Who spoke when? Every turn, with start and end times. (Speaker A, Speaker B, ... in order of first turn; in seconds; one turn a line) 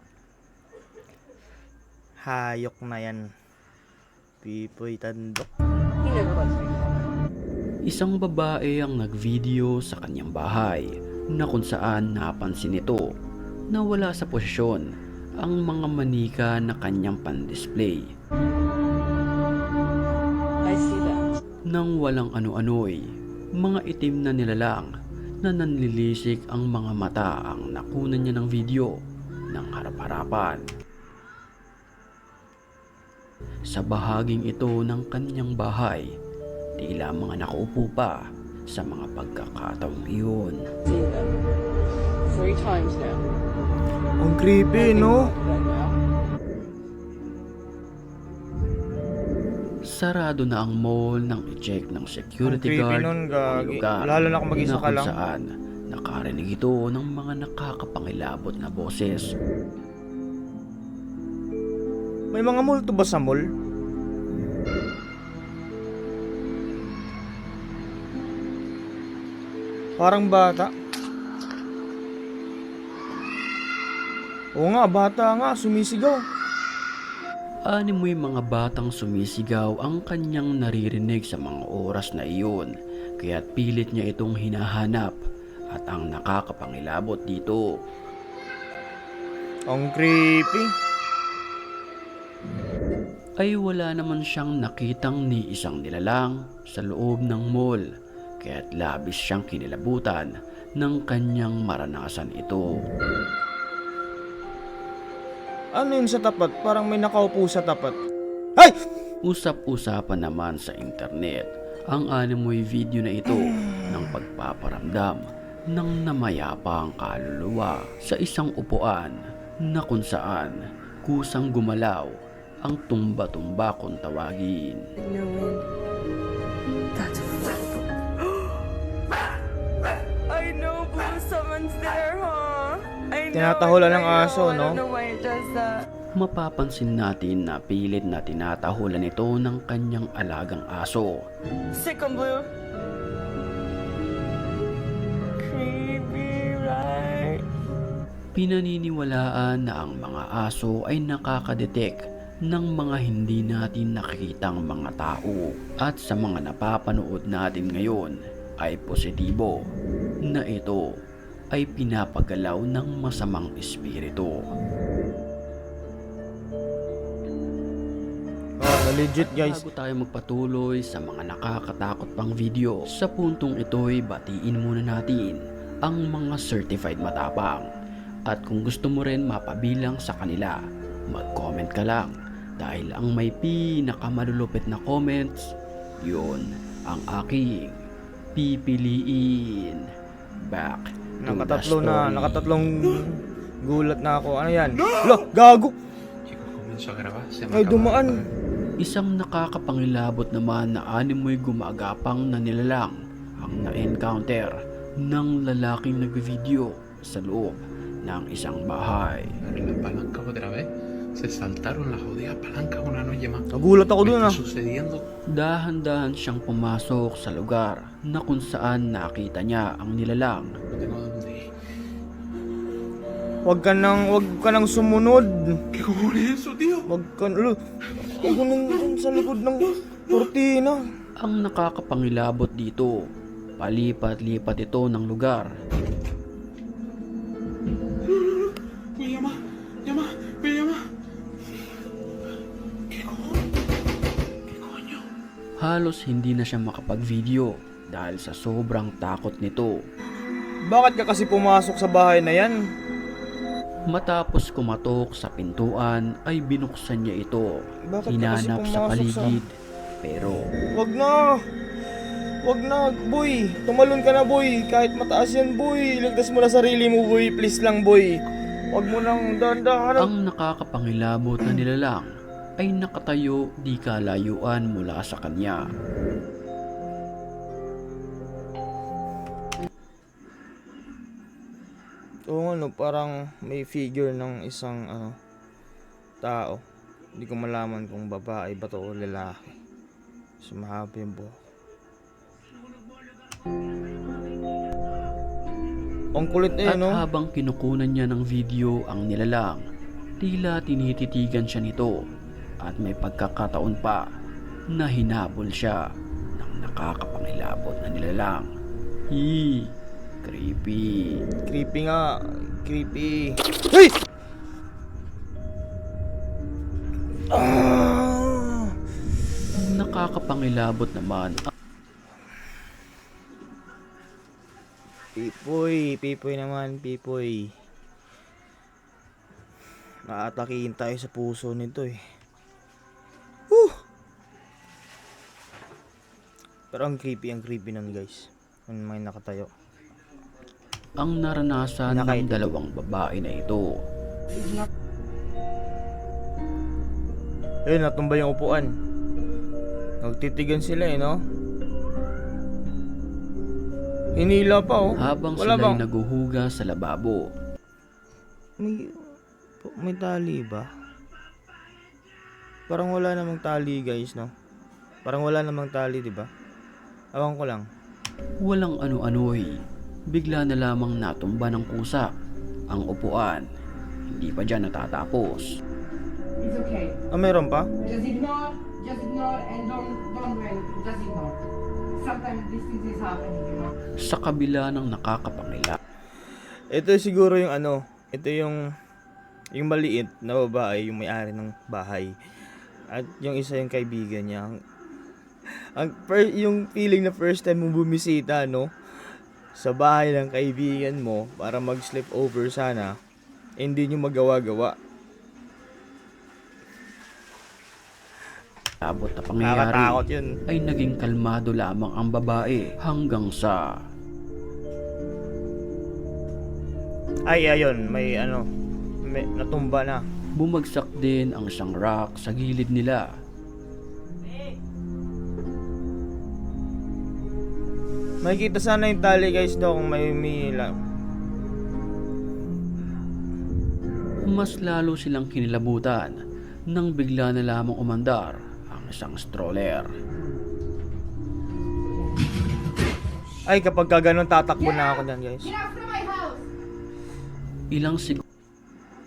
Speaker A: 2.2-3.2
Speaker A: 4.4-5.5
Speaker B: 6.0-7.0
Speaker C: 7.8-13.0
Speaker C: 13.7-14.8
Speaker C: 15.4-18.0
Speaker B: 20.6-21.3
Speaker C: 21.7-23.0
Speaker C: 23.6-24.9
Speaker C: 25.4-28.9
Speaker C: 29.5-30.6
Speaker C: 33.7-36.0
Speaker C: 36.8-38.2
Speaker C: 38.7-40.6
Speaker B: 40.8-41.3
Speaker B: 42.3-43.2
Speaker A: 44.2-45.3
Speaker B: 44.7-45.9
Speaker C: 49.9-59.3
Speaker A: 52.4-55.1
Speaker A: 62.3-63.4
Speaker A: 70.0-70.7
Speaker A: 74.6-76.2
Speaker C: 77.7-85.2
Speaker C: 85.7-87.6
Speaker A: 89.7-90.7
Speaker C: 93.4-97.8
Speaker C: 98.4-102.8
Speaker A: 105.7-108.0
Speaker C: 109.2-119.1
Speaker C: 119.7-120.5
Speaker C: 121.0-122.1
Speaker C: 122.6-124.8
Speaker B: 125.0-125.6
Speaker B: 126.9-128.7
Speaker B: 130.3-135.9
Speaker A: 133.3-134.8
Speaker C: 136.2-141.2
Speaker B: 141.7-142.5
Speaker B: 145.4-147.4
Speaker C: 148.3-159.5
Speaker C: 160.3-160.8
Speaker C: 161.5-164.3
Speaker A: 168.6-169.6
Speaker C: 169.2-177.7
Speaker C: 178.3-180.6
Speaker C: 181.1-187.8
Speaker C: 188.3-189.8
Speaker C: 190.4-192.4
Speaker A: 191.2-195.7
Speaker D: 196.3-198.2
Speaker A: 197.5-198.2
Speaker C: 198.8-209.3
Speaker D: 209.4-215.0
Speaker A: 213.5-214.4
Speaker C: 215.3-220.5
Speaker D: 220.7-221.5
Speaker A: 223.4-225.6
Speaker D: 225.7-226.8
Speaker A: 226.9-227.6
Speaker A: 228.2-230.8
Speaker C: 231.2-232.9
Speaker C: 233.6-235.5
Speaker D: 238.1-240.8
Speaker D: 242.9-243.4
Speaker D: 244.5-245.0
Speaker C: 245.6-249.8
Speaker A: 250.7-252.6
Speaker C: 253.9-257.5
Speaker A: 257.9-259.4
Speaker C: 258.1-259.5
Speaker C: 260.0-260.5
Speaker A: 260.7-261.4
Speaker A: 262.4-270.1
Speaker C: 270.0-272.1
Speaker C: 272.6-275.6
Speaker A: 282.3-285.1
Speaker A: 286.2-286.6
Speaker A: 287.2-289.5
Speaker A: 290.4-291.3
Speaker A: 296.1-297.0
Speaker C: 296.6-299.6
Speaker C: 300.2-301.9
Speaker C: 302.6-304.0
Speaker C: 304.7-305.8
Speaker C: 306.4-308.5
Speaker C: 309.1-309.7
Speaker C: 310.2-311.2
Speaker A: 311.4-313.9
Speaker A: 317.3-318.7
Speaker C: 319.5-321.4
Speaker A: 325.2-327.5
Speaker A: 330.1-332.0
Speaker A: 333.5-333.8
Speaker A: 336.7-339.5
Speaker C: 341.0-343.6
Speaker A: 341.9-342.5
Speaker A: 347.7-348.7
Speaker A: 350.0-351.2
Speaker A: 354.1-355.8
Speaker C: 355.0-357.2
Speaker A: 358.6-359.0
Speaker A: 359.6-360.7
Speaker A: 362.7-364.3
Speaker A: 365.0-366.3
Speaker A: 367.1-367.7
Speaker C: 368.4-369.6
Speaker C: 370.1-372.1
Speaker C: 372.7-373.4
Speaker C: 374.1-375.5
Speaker A: 377.1-377.7
Speaker E: 378.2-381.2
Speaker E: 382.1-383.6
Speaker C: 384.0-385.8
Speaker A: 386.7-388.6
Speaker A: 389.6-392.1
Speaker A: 392.9-394.5
Speaker A: 395.5-398.7
Speaker A: 399.6-402.9
Speaker A: 403.6-404.7
Speaker C: 408.8-413.6
Speaker A: 409.4-410.3
Speaker A: 417.3-418.4
Speaker A: 419.0-420.1
Speaker C: 420.4-423.1
Speaker A: 428.2-430.7
Speaker C: 434.3-436.2
Speaker C: 436.7-439.9
Speaker A: 443.5-445.7
Speaker C: 447.7-448.2